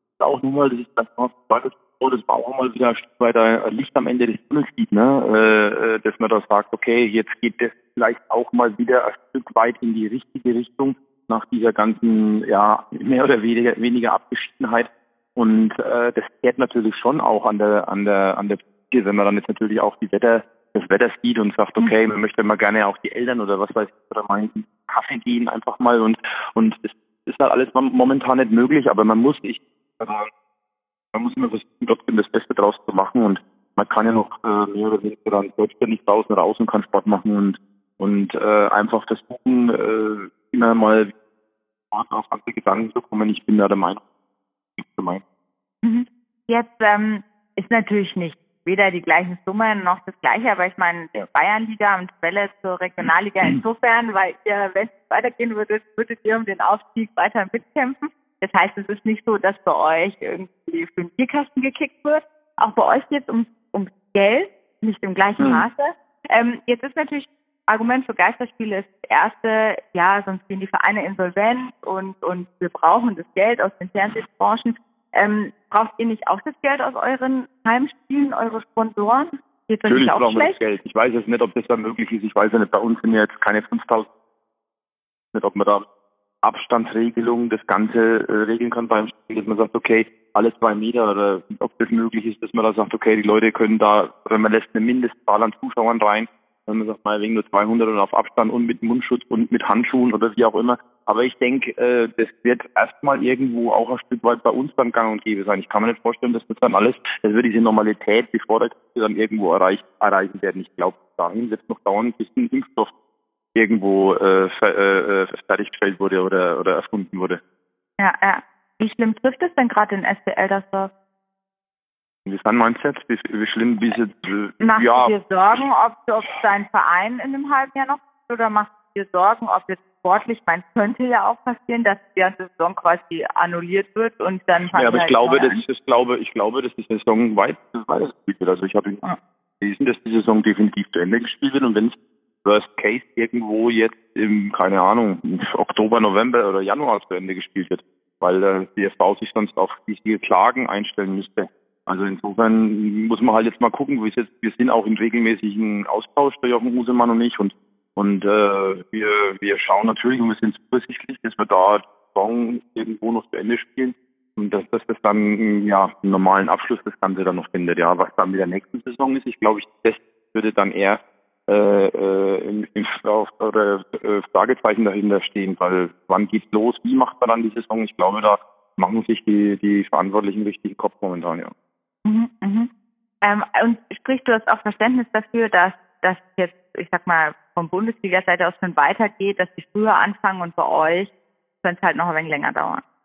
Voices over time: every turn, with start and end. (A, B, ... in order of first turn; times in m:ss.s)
0:00.2-0:30.3 A
0:31.1-0:41.1 A
0:41.9-0:44.0 A
0:44.8-0:45.2 A
0:45.8-1:20.6 B
1:05.4-1:05.6 A
1:19.9-1:24.1 A
1:25.3-1:25.8 A
1:26.4-1:52.9 A
1:53.5-1:57.4 A
1:58.0-2:00.9 B
2:02.2-2:05.1 A
2:04.6-2:15.6 B
2:14.7-2:19.0 A
2:19.6-3:01.5 A
3:02.0-3:02.7 B
3:03.2-3:11.1 B
3:11.6-3:12.8 B